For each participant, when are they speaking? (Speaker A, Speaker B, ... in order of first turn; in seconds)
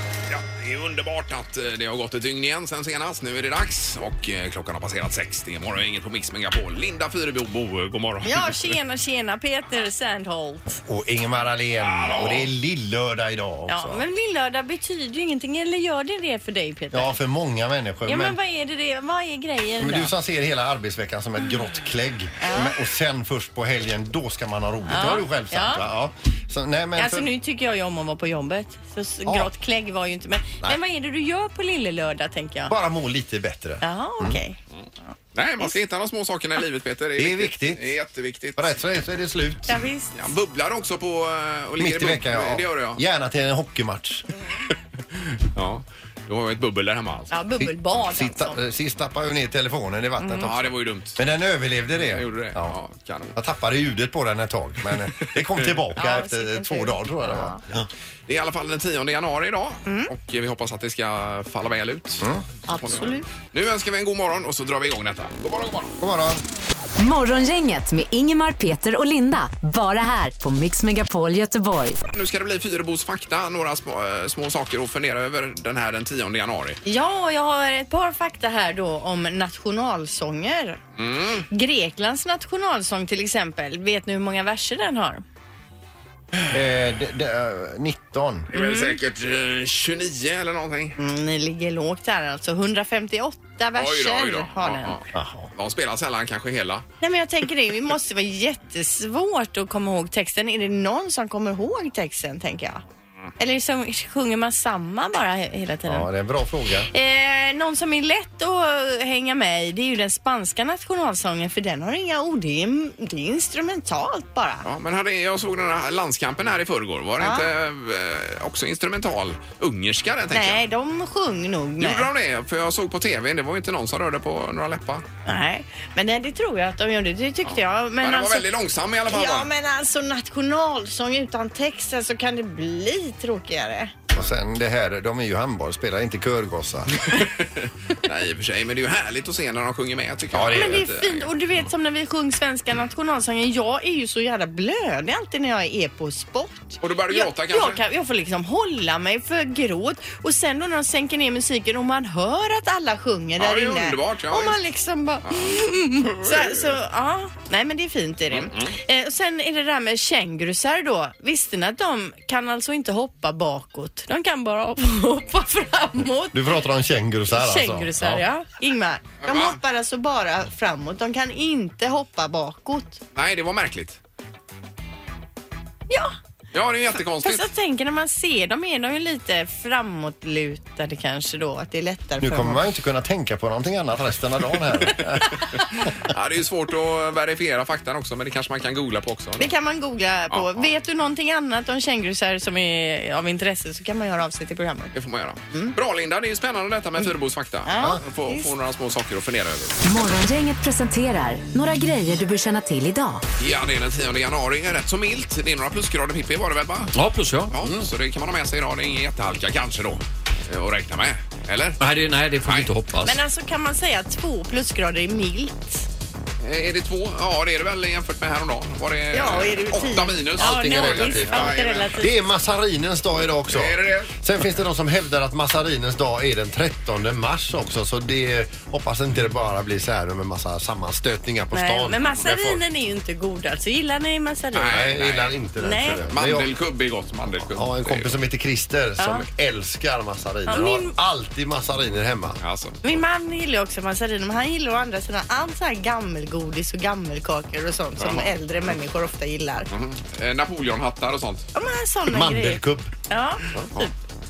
Speaker A: 0.3-8.8, 11.8-12.5, 34.8-38.8, 40.1-43.0, 45.1-47.3, 50.4-51.2, 52.0-53.3, 55.3-55.8, 58.3-65.9, 72.1-76.8, 81.0-81.5, 88.5-91.0, 93.8-96.8, 114.7-120.6, 121.8-125.0, 127.5-129.5, 137.1-141.3, 146.8-147.8, 153.4-154.6, 155.3-156.7, 158.3-158.8, 169.2-169.6, 173.2-174.0, 176.5-177.5, 186.1-189.5, 190.3-190.7, 194.9-199.8, 203.4-207.0, 207.5-211.8, 212.4-212.7, 216.4-222.1, 223.4-224.1, 234.5-235.4, 236.1-238.2, 242.4-242.8, 248.0-248.3, 249.7-251.5
Speaker B: 8.2-10.8, 13.7-17.2, 18.1-20.1, 22.4-22.7, 24.9-25.8, 26.9-32.7, 33.8-34.6, 39.7-40.1, 47.3-48.6, 50.2-50.5, 56.0-57.6, 59.9-60.1, 62.7-63.3, 76.8-80.8, 81.5-85.2, 88.5-89.0, 91.0-95.0, 97.0-102.8, 103.4-106.1, 106.9-114.7, 117.2-117.5, 120.3-122.1, 125.2-128.5, 129.1-133.9, 140.5-166.4, 167.3-173.0, 177.2-182.6, 189.4-194.9, 197.7-198.5, 213.0-215.9, 219.1-222.1, 231.5-234.7, 235.6-236.0, 239.0-239.2, 240.5-240.9, 242.8-249.7, 251.5-253.9
Speaker C: 10.9-14.0, 16.9-18.4, 19.8-27.3, 29.2-29.5, 32.7-34.4, 37.2-37.9, 38.6-39.8, 41.8-44.3, 47.6-52.8, 53.3-57.8, 66.0-66.4, 86.5-88.5, 95.1-95.5, 105.8-106.9, 134.1-137.0, 140.3-140.8, 166.3-168.2, 182.2-185.4, 220.4-232.6, 234.7-236.5, 237.4-242.4, 252.1-252.9
Speaker D: 67.0-72.0, 199.8-203.2
Speaker E: 206.9-207.5, 211.8-213.2